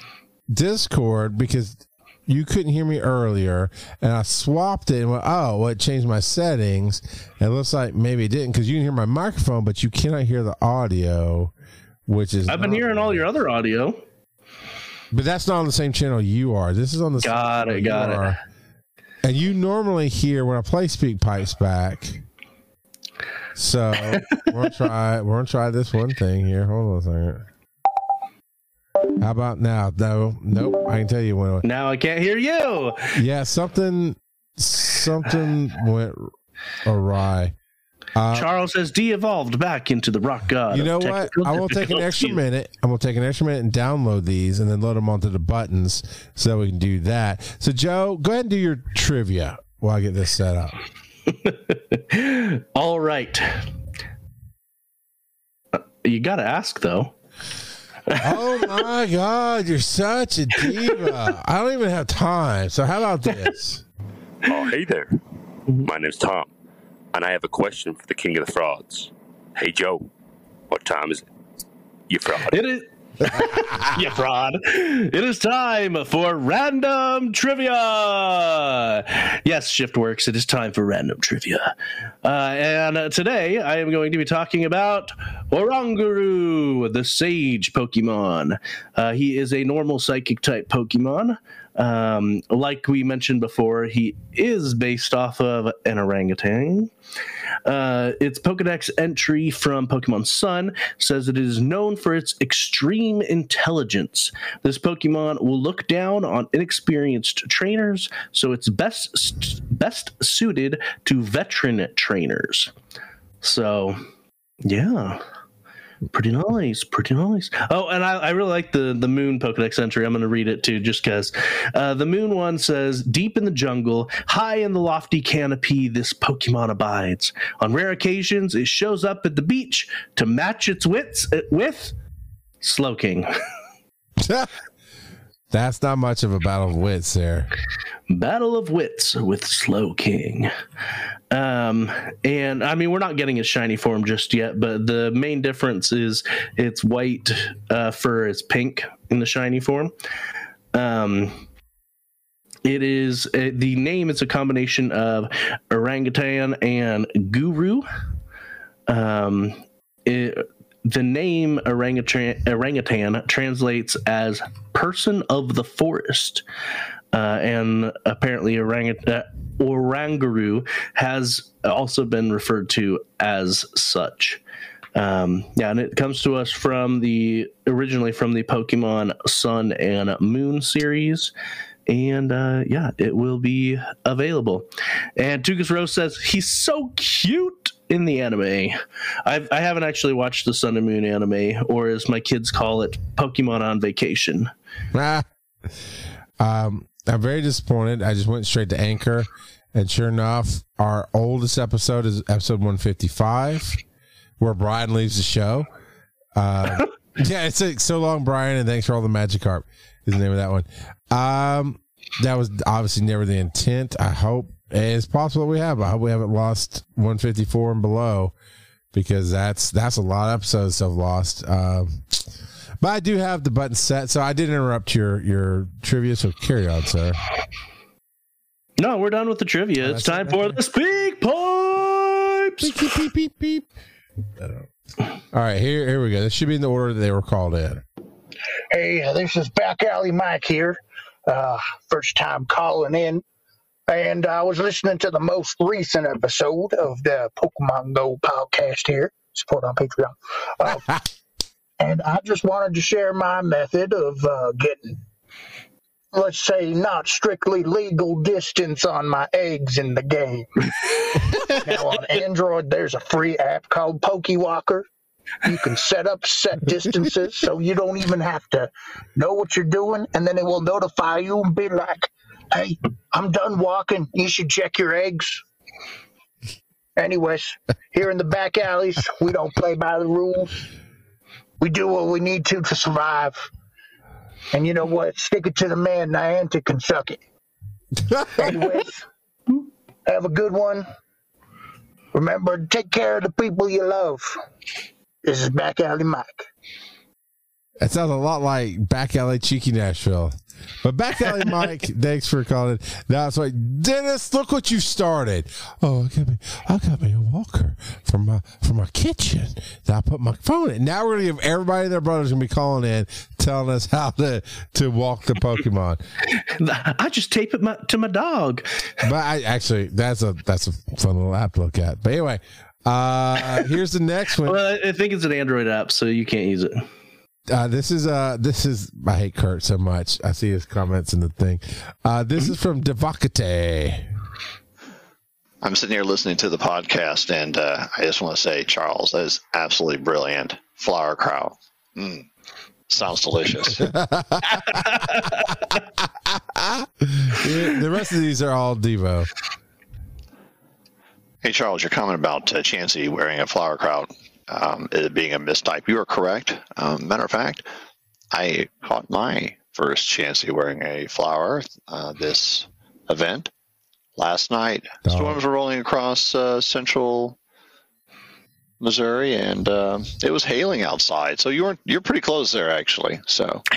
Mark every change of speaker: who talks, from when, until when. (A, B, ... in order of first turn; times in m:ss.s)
0:00.5-0:11.5 A
0:12.1-0:13.2 A
0:12.5-0:14.0 B
0:15.1-0:18.4 A
0:17.2-0:18.4 B
0:19.2-0:22.2 A
0:23.6-0:27.5 A
0:29.2-0:31.7 A
0:31.6-0:33.1 B
0:33.1-0:36.3 A
0:36.8-0:37.6 A
0:38.2-0:38.5 A
0:38.3-0:42.4 B
0:40.7-0:50.8 A
0:51.3-0:53.6 B
0:55.7-0:57.1 B
0:58.1-0:58.6 B
0:58.2-1:03.8 A
1:04.5-1:05.2 C
1:05.8-1:06.5 C
1:07.1-1:10.1 C
1:10.7-1:11.2 C
1:12.1-1:12.6 C
1:12.5-1:36.9 B
1:37.6-1:52.7 B
1:53.4-1:54.0 B
1:54.6-1:55.2 B
1:56.1-2:11.9 B
2:12.6-2:13.3 B
2:14.2-2:14.5 A
2:15.5-2:17.5 A
2:18.1-2:20.5 B
2:21.3-2:29.9 B
2:30.7-2:31.4 B
2:32.6-2:37.9 B
2:38.9-2:46.4 B
2:47.1-2:54.4 B
2:55.0-3:01.3 B
3:01.9-3:14.5 B
3:14.9-3:15.3 A
3:16.4-3:23.8 A
3:24.4-3:25.7 A
3:26.4-3:38.3 A
3:38.9-3:42.2 A
3:42.8-3:47.2 A
3:48.8-3:52.8 B
3:49.8-3:50.6 A
3:52.6-3:53.7 A
3:54.4-3:54.7 A
3:55.3-3:57.8 A
3:58.7-4:03.2 D
4:03.9-4:11.0 D
4:11.8-4:15.0 D
4:16.1-4:24.9 D
4:25.4-4:35.4 D
4:37.0-4:40.6 D
4:41.6-4:43.5 D
4:44.5-4:47.2 D
4:48.1-4:48.6 A
4:48.3-4:49.0 D
4:50.1-4:50.9 D
4:52.1-4:54.4 D
4:55.2-4:56.5 D
4:57.8-5:16.0 A
5:16.3-5:18.6 B
5:19.0-5:24.6 A
5:24.4-5:26.9 B
5:27.5-5:34.1 A
5:35.6-5:42.3 E
5:42.9-5:43.9 E
5:43.8-5:44.8 A
5:45.0-5:45.3 B
5:46.0-5:49.3 A
5:51.4-5:57.6 E
5:58.3-6:03.5 E
6:04.2-6:07.4 E
6:05.0-6:05.4 A
6:08.8-6:13.6 E